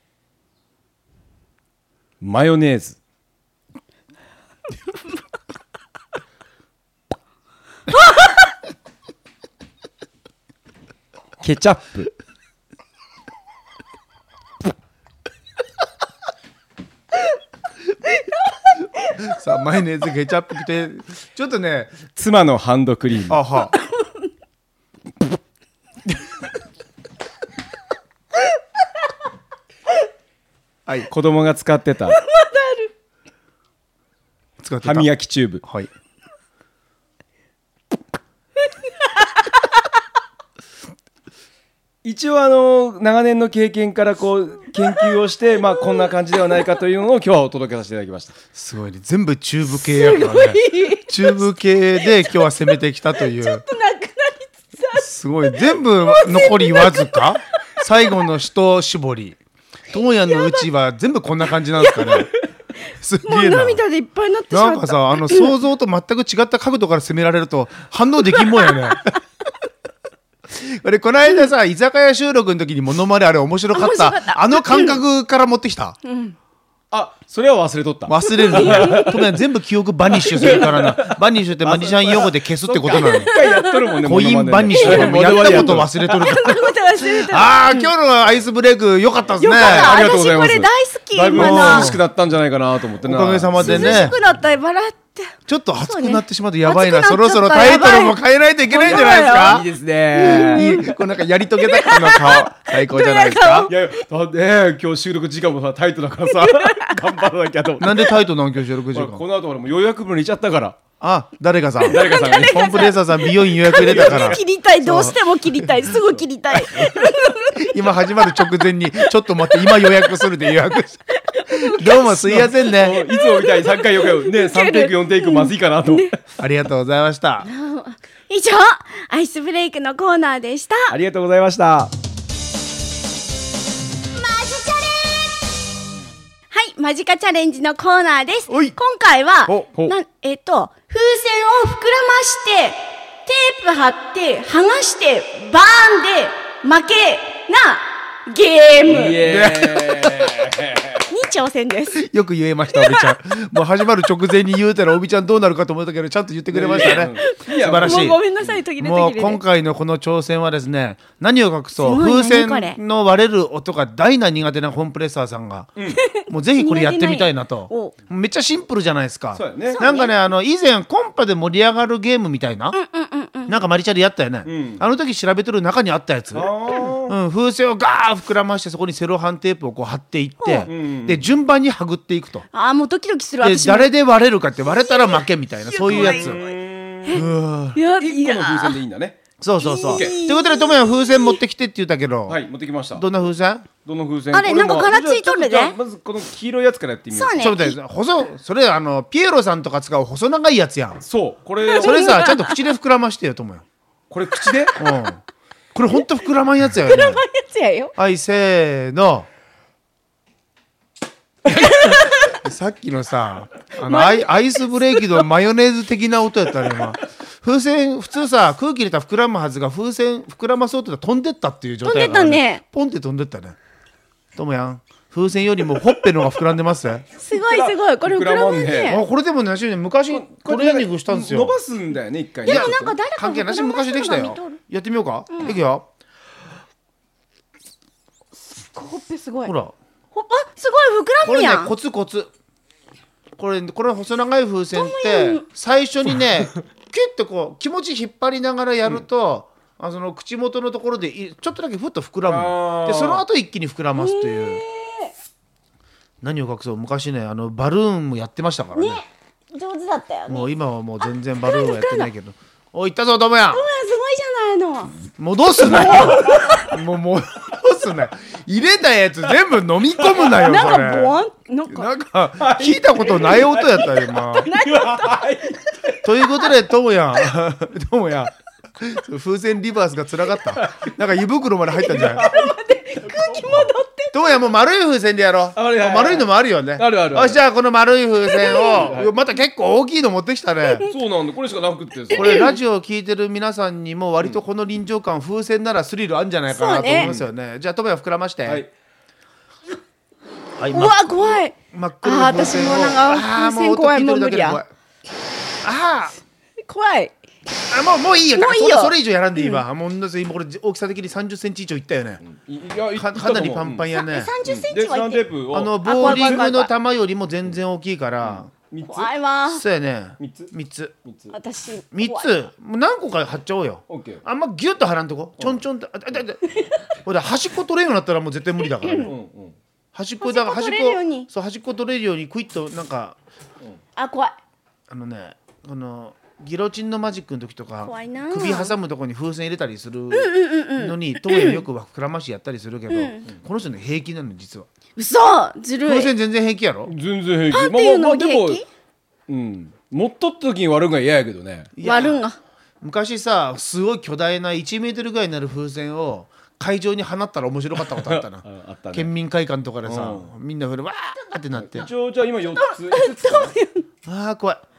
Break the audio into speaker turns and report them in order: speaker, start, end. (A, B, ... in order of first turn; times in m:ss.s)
0:02.2-0:03.0 A
0:11.4-0:12.1 A
0:19.1-0:22.0 B
0:22.2-0:23.4 A
0:23.3-0:23.7 B
0:31.1-0:32.2 A
0:32.2-0:32.9 C
0:34.6-0:35.1 B
0:34.8-0:35.6 A
0:35.6-0:35.9 B
0:42.0-0:48.4 A
0:45.8-0:46.6 C
0:48.6-0:53.6 B
0:49.8-0:51.4 C
0:53.2-0:57.3 C
0:55.0-0:59.4 B
0:59.9-1:02.3 B
1:00.2-1:00.7 C
1:01.8-1:02.3 C
1:03.0-1:03.8 B
1:03.2-1:05.5 C
1:04.5-1:09.0 B
1:10.5-1:16.0 B
1:13.7-1:15.0 C
1:16.0-1:16.4 C
1:16.9-1:19.3 A
1:18.1-1:23.3 B
1:18.4-1:19.1 C
1:20.3-1:26.3 A
1:23.0-1:23.9 C
1:24.0-1:30.0 B
1:24.8-1:27.9 C
1:29.4-1:32.0 C
1:29.6-1:34.1 A
1:31.3-1:32.0 B
1:33.0-1:34.2 B
1:33.6-1:39.6 C
1:35.5-1:43.7 B
1:38.9-1:40.7 A
1:40.2-1:41.0 C
1:41.6-1:43.7 C
1:43.7-1:48.1 A
1:46.4-1:47.0 C
1:47.8-1:49.2 B
1:48.9-1:50.8 A
1:51.0-1:55.2 B
1:51.8-1:58.5 C
1:51.9-1:52.8 A
1:53.7-1:54.4 A
1:57.6-2:03.0 B
1:59.6-2:00.1 C
2:01.1-2:02.4 C
2:02.2-2:06.2 A
2:02.9-2:06.2 C
2:06.4-2:07.5 B
2:07.4-2:10.9 C
2:10.9-2:11.9 A
2:14.2-2:15.3 C
2:16.5-2:29.2 C
2:18.5-2:18.8 B
2:28.8-2:31.1 A
2:29.2-2:30.4 B
2:31.1-2:32.0 C
2:32.0-2:38.2 B
2:32.7-2:33.1 C
2:36.5-2:38.5 A
2:36.8-2:39.4 C
2:38.8-2:45.7 B
2:41.8-2:42.8 C
2:45.9-2:47.9 C
2:46.3-2:52.8 B
2:49.4-2:49.8 A
2:49.7-2:50.1 C
2:52.7-2:53.6 C
2:53.5-2:56.5 B
2:54.5-2:54.8 A
2:56.3-2:57.2 A
2:57.0-3:02.5 B
3:00.4-3:00.7 C
3:00.7-3:01.3 A
3:02.5-3:03.9 C
3:03.4-3:06.4 B
3:04.8-3:06.6 C
3:05.9-3:07.3 A
3:07.1-3:07.8 B
3:07.8-3:08.8 C
3:07.9-3:09.2 A
3:09.4-3:12.4 B
3:09.6-3:11.4 C
3:09.8-3:10.2 A
3:12.3-3:13.1 A
3:12.9-3:13.7 B
3:13.8-3:17.4 A
3:14.3-3:15.8 C
3:17.1-3:17.8 C
3:17.4-3:21.0 B
3:21.1-3:22.3 A
3:21.7-3:22.6 C
3:21.8-3:23.6 B
3:24.1-3:24.8 A
3:24.8-3:25.2 B
3:25.7-3:27.2 B
3:26.9-3:27.9 C
3:28.0-3:29.3 B
3:31.5-3:32.3 C
3:31.6-3:43.6 B
3:33.9-3:34.3 C
3:34.9-3:35.2 C
3:41.8-3:42.6 C
3:44.4-3:47.0 B
3:47.2-3:49.0 C
3:47.4-3:49.0 A
3:48.9-3:51.6 B
3:50.1-3:53.0 A
3:52.5-3:54.6 C
3:52.5-3:55.9 B
3:55.3-3:55.6 C
3:58.7-3:59.5 C
3:59.4-3:59.7 B
4:00.1-4:01.7 C
4:01.2-4:02.3 B
4:03.4-4:14.6 B
4:04.7-4:05.4 C
4:12.3-4:13.2 A
4:14.0-4:15.1 C
4:16.2-4:19.0 B
4:18.8-4:20.5 C
4:20.3-4:23.6 B
4:21.3-4:22.1 C
4:23.5-4:25.0 C
4:25.2-4:31.2 B
4:25.6-4:26.7 C
4:30.2-4:31.9 C
4:31.7-4:34.5 B
4:32.4-4:36.0 A
4:34.4-4:36.5 C
4:36.0-4:42.3 B
4:40.6-4:40.9 A
4:41.8-4:43.7 A
4:42.0-4:44.4 C
4:44.1-4:50.9 B
4:45.6-4:47.4 A
4:48.3-4:48.9 C
4:48.6-4:49.1 A
4:50.9-4:52.4 A
4:52.1-4:58.6 B
4:52.1-4:52.5 C
4:56.5-4:57.1 C
4:57.0-4:57.3 A
5:00.6-5:01.0 B
5:00.7-5:04.6 C
5:01.7-5:04.7 B
5:05.6-5:06.2 B
5:06.7-5:07.1 C
5:07.7-5:12.2 B
5:08.3-5:09.6 C
5:12.2-5:13.9 A
5:13.0-5:14.3 B
5:13.9-5:15.3 C
5:14.4-5:16.5 A
5:15.5-5:18.5 B
5:15.8-5:16.7 C
5:18.2-5:19.1 A
5:18.8-5:19.6 C
5:19.5-5:20.9 B
5:20.2-5:20.5 A
5:21.0-5:21.3 A
5:21.3-5:22.3 C
5:21.9-5:26.4 B
5:23.9-5:24.2 A
5:26.5-5:26.8 C
5:27.0-5:29.1 B
5:28.8-5:29.1 C
5:29.0-5:29.6 A
5:29.9-5:33.2 B
5:30.2-5:31.3 C
5:34.0-5:34.4 C
5:34.9-5:44.7 B
5:37.8-5:38.7 C
5:40.1-5:41.6 C
5:42.9-5:43.3 C
5:45.0-5:46.1 C
5:45.8-5:46.9 B
5:46.9-5:48.6 A
5:47.5-5:48.6 C
5:49.3-5:51.7 A
5:51.8-5:52.2 B
5:51.8-5:52.4 C
5:52.8-6:01.9 B
5:57.8-5:59.1 A
5:59.8-6:00.3 A
6:01.6-6:03.5 A
6:02.6-6:03.8 C
6:04.1-6:04.6 B